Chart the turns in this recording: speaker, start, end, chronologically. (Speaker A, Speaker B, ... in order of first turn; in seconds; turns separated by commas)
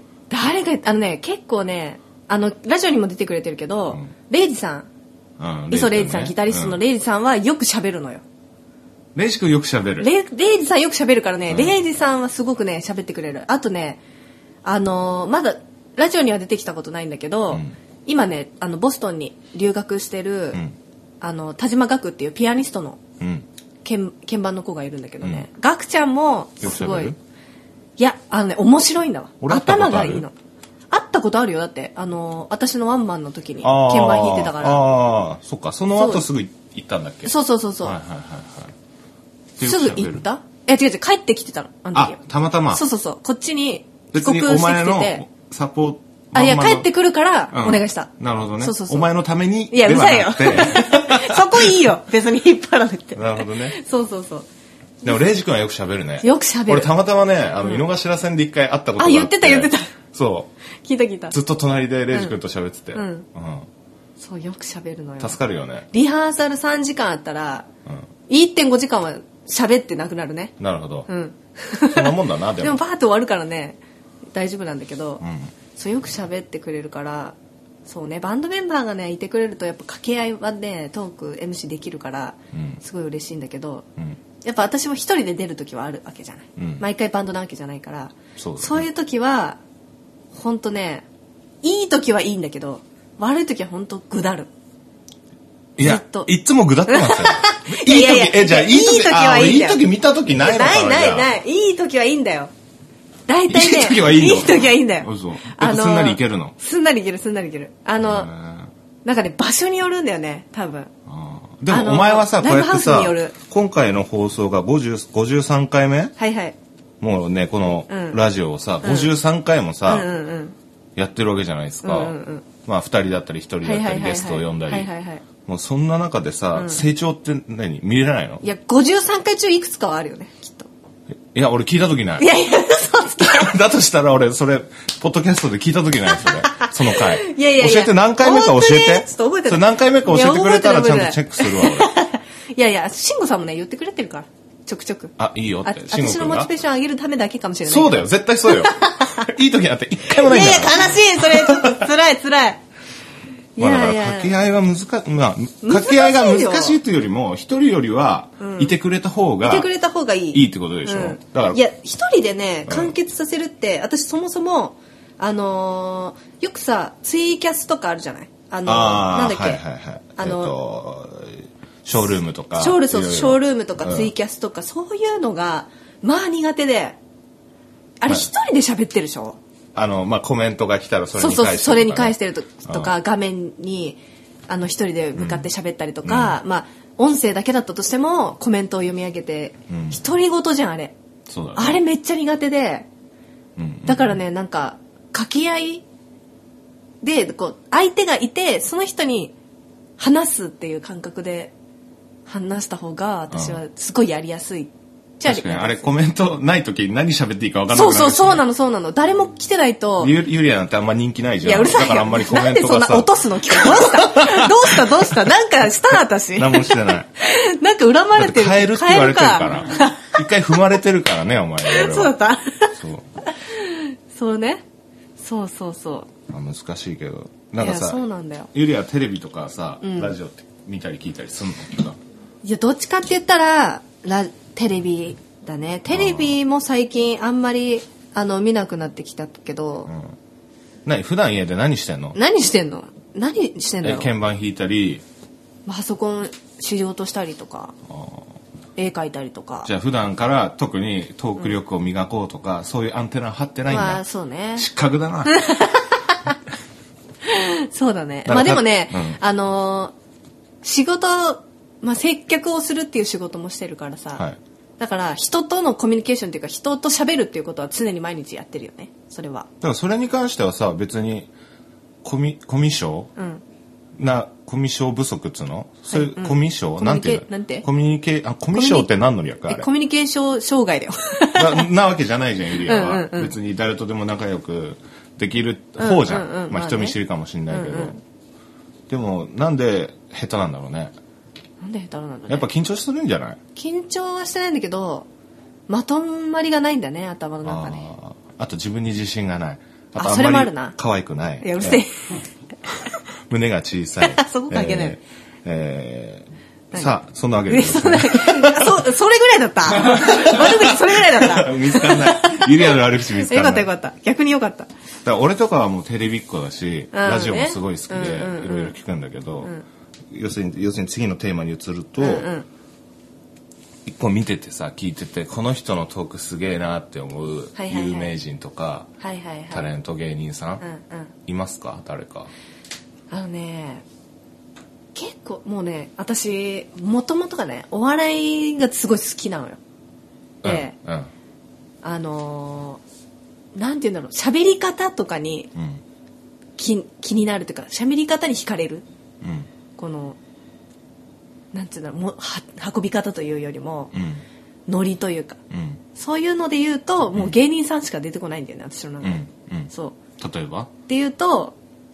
Speaker A: 0.3-4.9, Speaker B: 5.4-6.8, Speaker A: 5.7-8.2, Speaker B: 9.2-10.1, Speaker A: 10.0-14.0, Speaker B: 11.5-11.8, Speaker A: 14.7-20.6, Speaker A: 21.2-23.0, Speaker B: 23.2-23.5, Speaker A: 23.8-27.1, Speaker B: 25.2-25.5, Speaker B: 26.6-27.2, Speaker A: 28.0-30.3, Speaker B: 29.4-30.2, Speaker A: 30.9-34.9, Speaker B: 33.6-38.8, Speaker A: 36.0-36.2, Speaker A: 37.2-38.0, Speaker B: 39.6-40.3, Speaker A: 39.6-42.2, Speaker B: 41.9-42.8, Speaker A: 42.7-45.2, Speaker B: 44.1-46.9, Speaker A: 46.4-49.1, Speaker B: 47.5-51.8, Speaker A: 49.7-54.5, Speaker B: 53.1-53.8, Speaker B: 55.0-60.5, Speaker A: 56.2-56.9, Speaker A: 57.6-57.9, Speaker A: 59.0-59.9, Speaker A: 60.8-61.4, Speaker B: 61.3-63.7, Speaker A: 62.1-62.4, Speaker A: 62.9-63.3, Speaker A: 64.2-65.4, Speaker B: 65.2-65.9, Speaker A: 65.9-67.7, Speaker A: 68.3-70.5, Speaker B: 70.6-71.1, Speaker A: 71.1-73.8, Speaker B: 71.9-72.8, Speaker A: 74.3-75.2, Speaker B: 75.2-75.5, Speaker A: 75.8-77.3, Speaker A: 77.9-83.9, Speaker B: 82.5-82.8, Speaker A: 84.4-89.6, Speaker B: 86.6-86.8, Speaker B: 88.4-88.9, Speaker A: 90.3-91.1, Speaker A: 91.6-94.5, Speaker B: 95.8-101.3, Speaker A: 95.8-96.3, Speaker A: 96.9-99.8, Speaker A: 100.4-102.5, Speaker A: 103.3-108.3, Speaker B: 103.5-106.5, Speaker B: 108.0-108.7, Speaker A: 109.0-110.9, Speaker B: 111.1-116.2, Speaker A: 111.7-113.4, Speaker A: 116.2-116.6, Speaker B: 117.0-120.1, Speaker A: 117.9-118.2, Speaker A: 118.8-119.2, Speaker A: 119.9-120.6, Speaker B: 121.0-124.9, Speaker A: 121.8-122.5, Speaker A: 123.6-125.2, Speaker B: 125.5-128.4, Speaker A: 126.5-126.8, Speaker A: 128.4-130.7, Speaker B: 131.3-132.3, Speaker A: 132.2-133.6, Speaker B: 133.2-141.9, Speaker A: 136.5-149.3, Speaker B: 145.2-146.5, Speaker B: 147.7-151.8, Speaker A: 150.1-152.6, Speaker A: 153.6-154.3, Speaker B: 153.6-159.7, Speaker A: 155.6-156.8, Speaker A: 158.4-158.7, Speaker A: 159.4-169.6, Speaker B: 160.3-161.6, Speaker B: 162.7-162.9, Speaker B: 168.7-174.1, Speaker A: 170.2-170.6, Speaker A: 172.6-177.0, Speaker A: 178.0-179.4, Speaker B: 179.8-182.9, Speaker A: 181.2-190.9, Speaker B: 185.2-185.5, Speaker B: 186.0-186.4, Speaker B: 189.7-190.0, Speaker B: 191.3-191.8, Speaker A: 191.6-192.9, Speaker B: 193.6-194.2, Speaker A: 193.9-195.8, Speaker A: 197.0-199.3, Speaker A: 200.0-201.5, Speaker A: 202.3-205.9, Speaker B: 203.3-203.6, Speaker B: 205.2-208.4, Speaker A: 207.7-210.2, Speaker B: 210.0-215.3, Speaker A: 211.4-220.2, Speaker B: 216.3-217.1, Speaker B: 218.2-222.2, Speaker A: 221.6-222.7, Speaker B: 222.8-223.1, Speaker A: 223.3-224.6, Speaker A: 225.2-226.1, Speaker B: 226.3-228.0, Speaker A: 227.6-228.5, Speaker B: 228.5-232.0, Speaker A: 229.8-230.2, Speaker A: 232.4-239.9, Speaker B: 235.9-236.4, Speaker B: 239.9-240.1, Speaker B: 240.8-242.2, Speaker A: 242.2-244.1, Speaker B: 243.8-245.0, Speaker A: 245.7-247.7, Speaker B: 247.9-248.2, Speaker A: 248.8-249.7, Speaker B: 249.7-254.0, Speaker A: 253.7-254.7, Speaker B: 254.6-255.5, Speaker A: 255.3-256.4, Speaker A: 257.2-259.9, Speaker B: 258.2-259.2, Speaker A: 260.6-264.2, Speaker A: 264.8-269.5, Speaker B: 269.6-271.3, Speaker B: 272.0-273.1, Speaker A: 273.2-273.4, Speaker B: 274.0-279.7, Speaker A: 275.9-277.7, Speaker A: 278.5-278.9, Speaker A: 279.5-281.7, Speaker B: 281.3-288.0, Speaker A: 282.6-283.3, Speaker A: 285.8-287.0, Speaker A: 287.5-288.0, Speaker B: 288.9-290.9, Speaker A: 291.6-292.5, Speaker B: 292.3-293.4, Speaker A: 293.6-295.1, Speaker A: 295.7-297.9, Speaker B: 297.4-301.9, Speaker A: 300.0-300.8, Speaker A: 301.4-302.0, Speaker B: 303.3-308.9, Speaker A: 304.0-305.0, Speaker A: 307.5-314.7, Speaker B: 309.7-313.7, Speaker B: 315.1-319.5, Speaker A: 316.9-318.7, Speaker B: 320.1-322.3, Speaker A: 322.0-322.5, Speaker B: 323.9-328.9, Speaker A: 327.6-328.1, Speaker A: 329.0-329.7, Speaker B: 329.5-330.6, Speaker A: 330.6-331.1, Speaker B: 331.3-332.3, Speaker A: 333.1-333.9, Speaker A: 334.9-339.6, Speaker B: 340.4-341.1, Speaker A: 340.4-340.7, Speaker A: 341.8-342.8, Speaker A: 343.6-345.5, Speaker B: 345.6-345.8, Speaker A: 346.6-348.8, Speaker B: 349.2-349.5, Speaker A: 349.8-350.2, Speaker A: 351.5-353.9, Speaker B: 353.9-354.2, Speaker A: 354.7-355.4, Speaker B: 355.5-355.8, Speaker A: 355.9-360.0, Speaker B: 359.0-360.7, Speaker A: 360.9-361.6